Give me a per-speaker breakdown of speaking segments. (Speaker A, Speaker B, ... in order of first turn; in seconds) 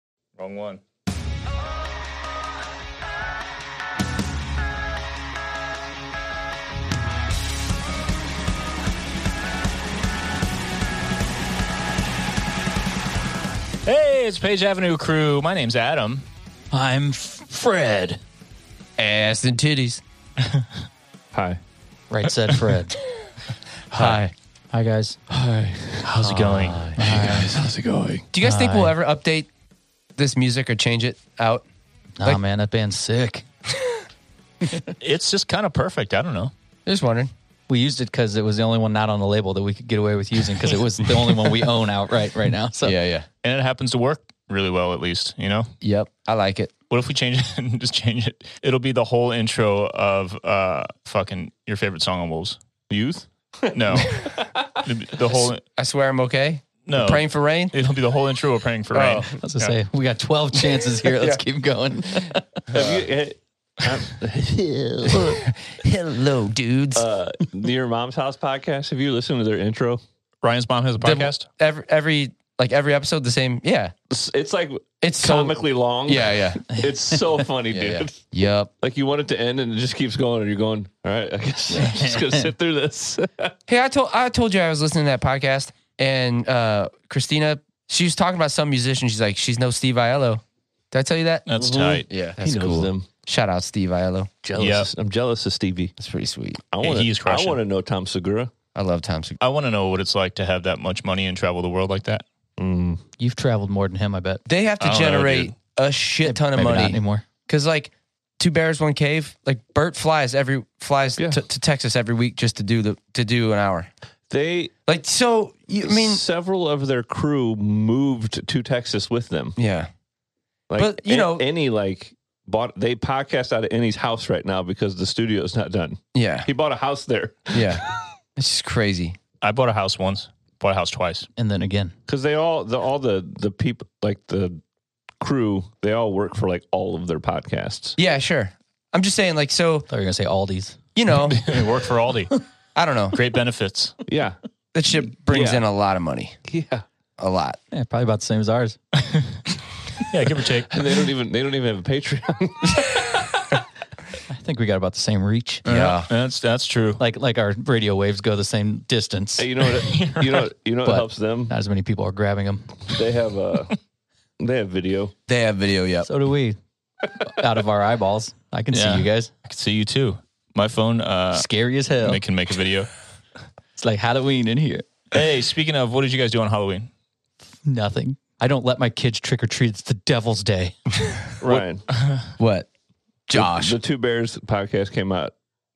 Speaker A: 0.4-0.8, 13.8-16.3, 23.9-24.2, 26.0-26.9, 35.0-36.5, 43.4-45.7, 46.9-52.6, 53.7-55.6, 56.9-59.8, 70.4-71.5, 91.5-92.1, 94.6-94.9, 96.8-97.6, 99.4-102.2, 104.8-105.5, 129.4-131.3, 141.2-142.3, 143.1-144.0, 150.0-150.7, 155.7-157.0, 159.8-160.5, 168.7-171.5, 172.0-172.9, 175.1-176.9, 181.4-182.3
Speaker B: 16.7-18.2, 22.1-22.9, 24.7-25.2, 27.0-27.5, 28.4-28.9, 32.2-33.5, 37.7-43.0, 59.3-62.5, 76.8-77.1, 81.8-82.4, 103.2-104.4, 106.2-107.2, 131.4-131.9, 139.9-140.8, 147.7-148.8, 154.3-155.6, 157.0-159.5, 160.8-162.8, 166.1-166.6, 167.2-169.3, 171.3-172.2, 173.8-174.8, 177.7-180.8
Speaker C: 19.0-20.0, 23.9-24.3, 26.2-27.1, 28.3-29.5, 30.2-31.6, 36.9-37.3, 41.3-41.5, 42.8-43.3, 45.8-46.7, 54.0-54.3, 55.3-57.8, 58.9-59.3, 61.0-61.4, 65.1-67.0, 71.0-73.9, 75.0-76.7, 77.7-78.7, 83.7-91.5, 92.1-94.4, 96.0-96.6, 98.7-99.4, 104.5-113.9, 114.9-116.2, 119.6-119.9, 120.8-121.5, 126.2-126.5, 127.5-127.8, 128.4-129.2, 138.0-139.9, 140.9-141.4, 142.8-143.2, 144.7-146.4, 147.2-147.6, 155.7-156.1, 165.3-166.1, 182.4-182.7, 183.3-183.8
Speaker D: 21.3-21.6, 25.3-26.3, 27.0-28.3, 52.9-54.0, 62.7-65.4, 66.9-70.0, 74.1-78.3, 78.8-83.5, 91.6-93.1, 94.5-95.9, 96.7-98.5, 102.6-103.0, 111.2-111.4, 114.3-114.7, 115.8-119.6, 120.7-127.8, 132.1-134.6, 135.2-138.0, 144.1-144.4, 145.3-145.7, 146.5-146.8, 150.7-153.5, 159.4-161.5, 162.9-163.8, 164.4-165.1, 181.4-181.8, 183.3-185.3